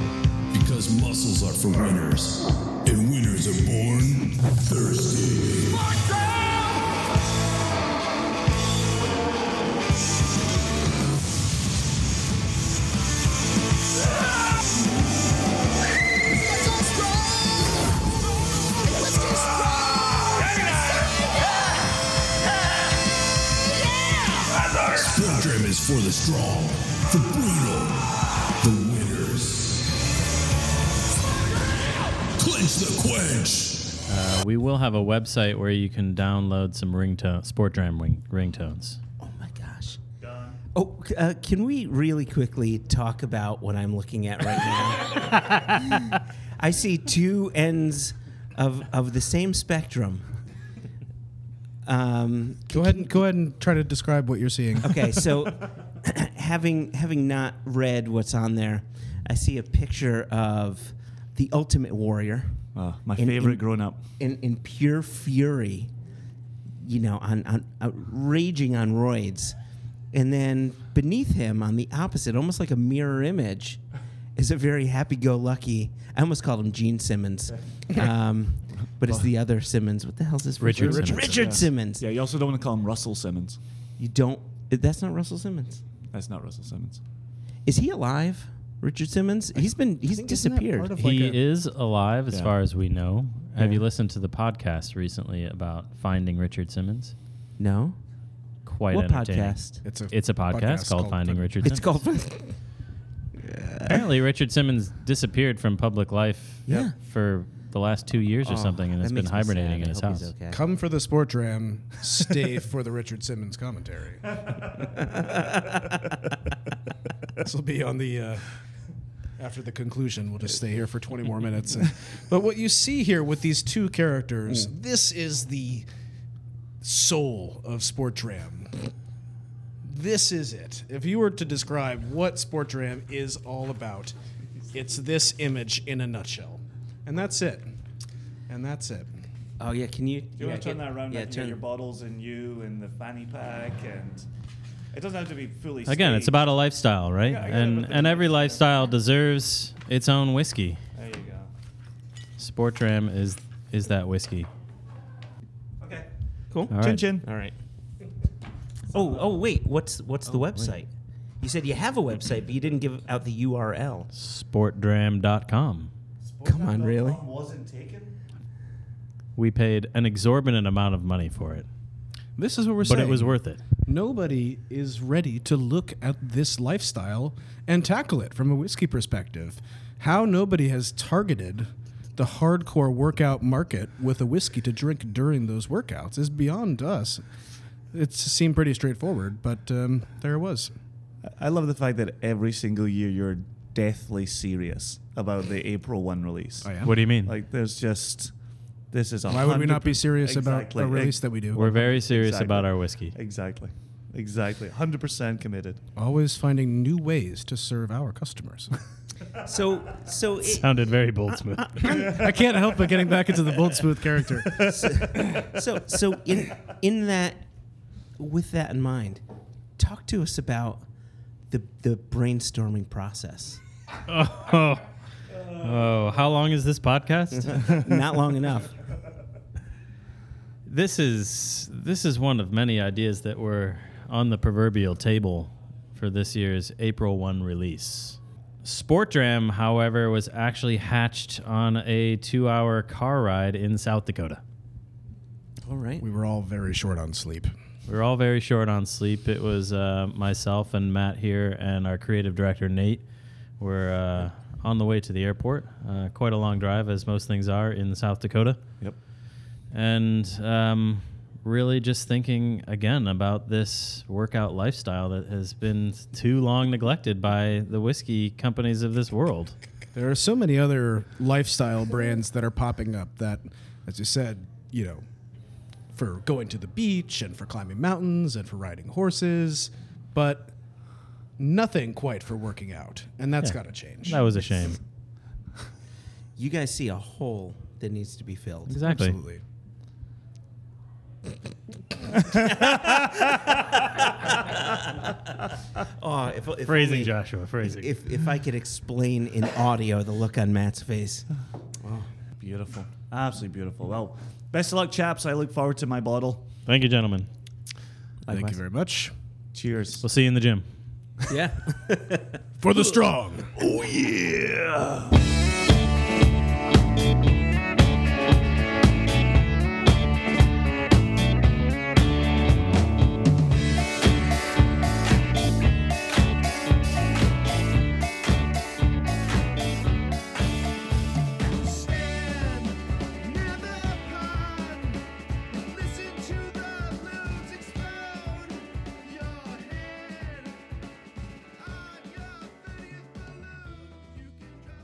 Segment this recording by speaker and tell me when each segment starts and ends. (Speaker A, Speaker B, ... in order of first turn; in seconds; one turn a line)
Speaker A: 0.5-5.9
Speaker B: 5.9-6.5
Speaker B: 16.6-17.6
Speaker B: 18.9-21.1
Speaker B: 24.1-24.3
Speaker A: 24.8-28.0
Speaker A: 28.6-29.9
Speaker A: 32.4-33.9
Speaker C: 34.1-39.0
Speaker D: 39.2-40.0
Speaker E: 40.2-40.6
Speaker D: 40.7-50.3
Speaker D: 51.8-53.2
Speaker F: 52.7-55.3
Speaker D: 54.8-62.6
Speaker E: 62.8-64.0
Speaker D: 63.2-65.9
Speaker D: 66.8-69.6
Speaker D: 70.1-73.8
Speaker D: 74.3-82.0
Speaker C: 80.6-81.4
Speaker F: 80.7-81.6
Speaker E: 81.4-83.6
Speaker D: 84.0-85.8
Speaker E: 86.1-87.0
Speaker D: 87.7-90.9
Speaker F: 90.0-91.4
Speaker C: 91.0-97.1
Speaker D: 93.6-93.8
Speaker D: 97.6-98.0
Speaker C: 98.7-101.9
Speaker D: 98.9-99.8
Speaker F: 99.8-101.7
Speaker D: 101.6-102.6
Speaker D: 103.4-104.0
Speaker C: 103.8-110.3
Speaker D: 106.7-107.0
Speaker D: 108.4-110.6
Speaker F: 110.5-114.5
Speaker D: 115.0-115.9
Speaker F: 117.4-118.6
Speaker F: 119.4-125.9
Speaker F: 126.8-128.8
Speaker F: 129.8-134.1
Speaker F: 134.7-137.7
Speaker F: 138.5-139.2
Speaker D: 139.6-141.6
Speaker E: 140.4-144.3
Speaker E: 144.9-146.6
Speaker C: 145.9-150.8
Speaker E: 147.3-148.6
Speaker E: 150.9-151.5
Speaker C: 152.4-154.5
Speaker E: 155.8-156.1
Speaker D: 156.5-157.6
Speaker C: 156.7-157.1
Speaker E: 156.8-157.3
Speaker D: 158.9-160.9
Speaker D: 161.4-164.1
Speaker C: 164.1-165.9
Speaker E: 166.2-168.2
Speaker D: 166.4-167.2
Speaker C: 169.4-171.7
Speaker F: 172.4-187.2
Speaker C: 172.8-173.6
Speaker F: 187.9-190.7
Speaker E: 191.3-198.3
Speaker F: 196.6-196.9
Speaker C: 196.8-197.3
Speaker E: 198.9-205.8
Speaker F: 199.3-201.7
Speaker C: 201.5-203.1
Speaker F: 206.0-208.8
Speaker D: 209.4-210.8
Speaker C: 210.4-212.1
Speaker D: 211.3-212.3
Speaker F: 211.8-214.7
Speaker E: 214.5-214.9
Speaker D: 214.6-217.5
Speaker D: 218.2-219.2
Speaker D: 219.8-220.8
Speaker D: 221.5-223.6
Speaker C: 224.1-224.8
Speaker C: 225.5-227.8
Speaker D: 227.3-228.7
Speaker C: 230.7-244.4
Speaker D: 245.6-246.0
Speaker F: 246.0-247.5
Speaker C: 247.9-253.0
Speaker C: 253.6-258.6
Speaker C: 259.7-269.6
Speaker F: 269.9-275.1
Speaker F: 275.9-280.5
Speaker F: 281.4-284.3
Speaker C: 283.4-284.8
Speaker D: 286.4-288.8
Speaker C: 288.7-289.2
Speaker F: 288.7-289.4
Speaker D: 292.3-295.2
Speaker D: 295.8-301.3
Speaker C: 296.7-297.9
Speaker E: 302.4-306.5
Speaker C: 306.7-307.3
Speaker E: 308.3-308.6
Speaker F: 308.3-309.1
Speaker E: 309.5-310.0
Speaker C: 310.0-310.7
Speaker D: 311.3-313.0
Speaker F: 312.6-313.5
Speaker E: 313.7-314.9
Speaker B: 333.4-334.5
Speaker B: 335.8-336.7
Speaker B: 339.8-340.1
Speaker B: 342.1-343.1